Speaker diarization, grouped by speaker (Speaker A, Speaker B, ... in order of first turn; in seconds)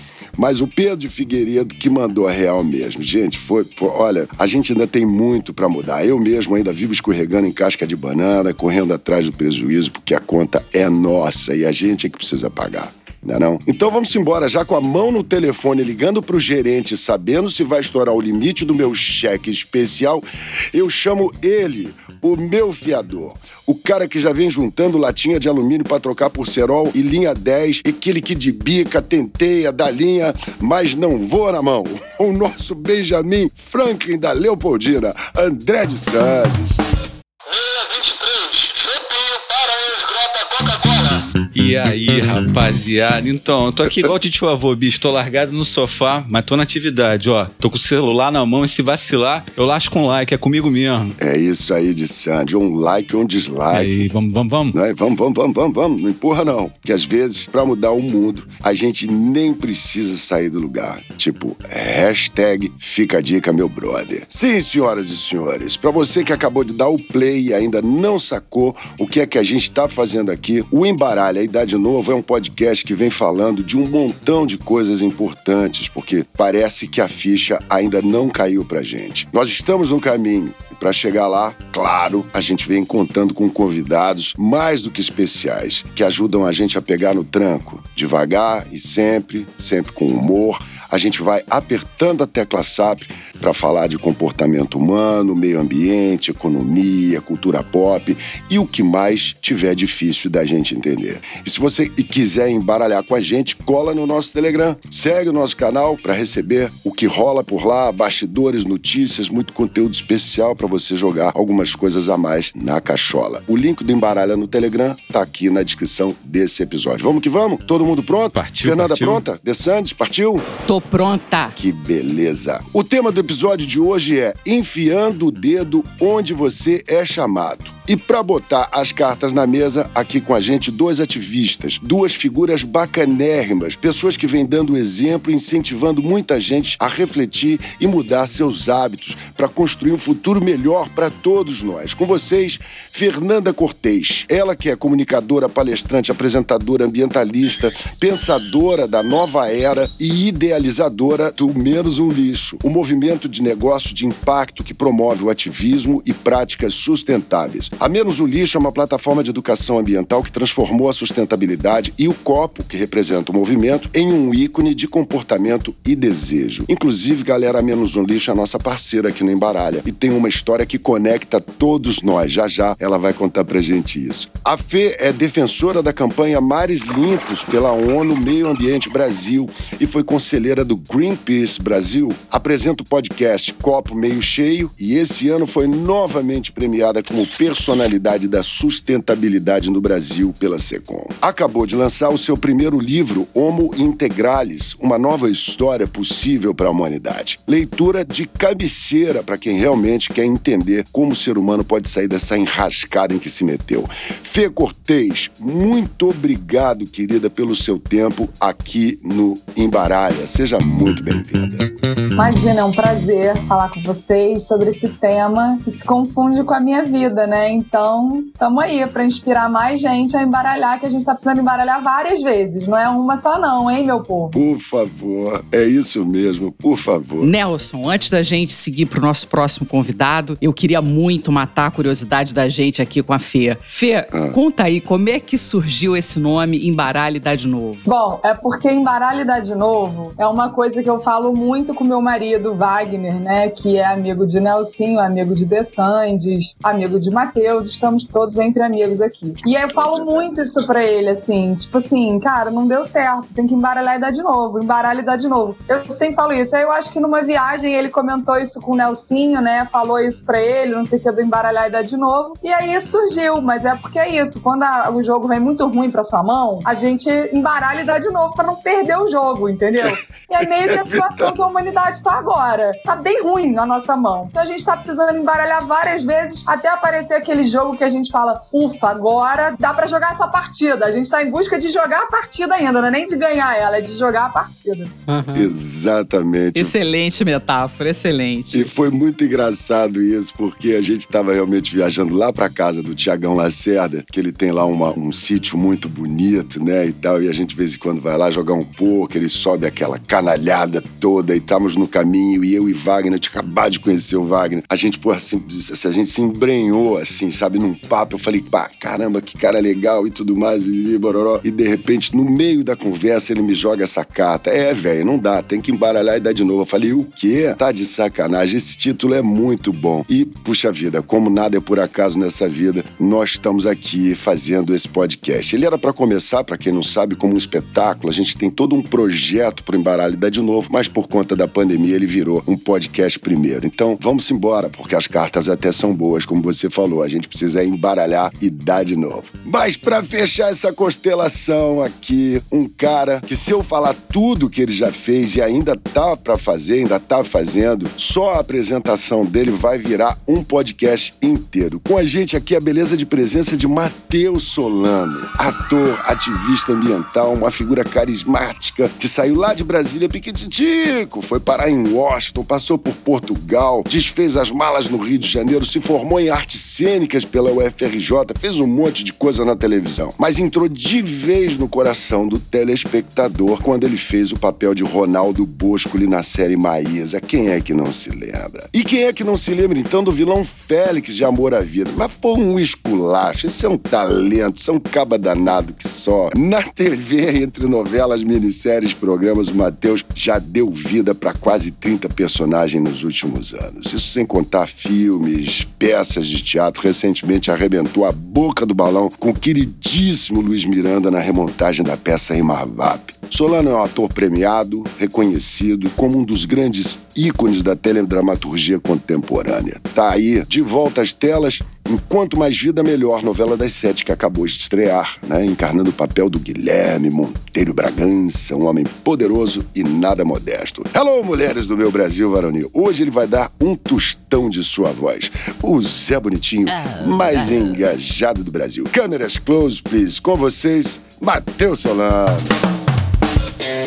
Speaker A: 0.3-36.8, 51.2-54.0, 54.7-120.5, 121.5-211.7, 224.3-227.3, 234.1-234.4, 249.7-250.5, 270.6-271.3, 285.3-286.8, 288.5-432.5
Speaker B: 40.8-51.1, 53.7-54.7, 118.3-119.2
Speaker C: 120.7-121.5, 227.2-237.8, 285.1-285.5, 286.5-288.7
Speaker D: 212.2-224.4, 237.8-284.9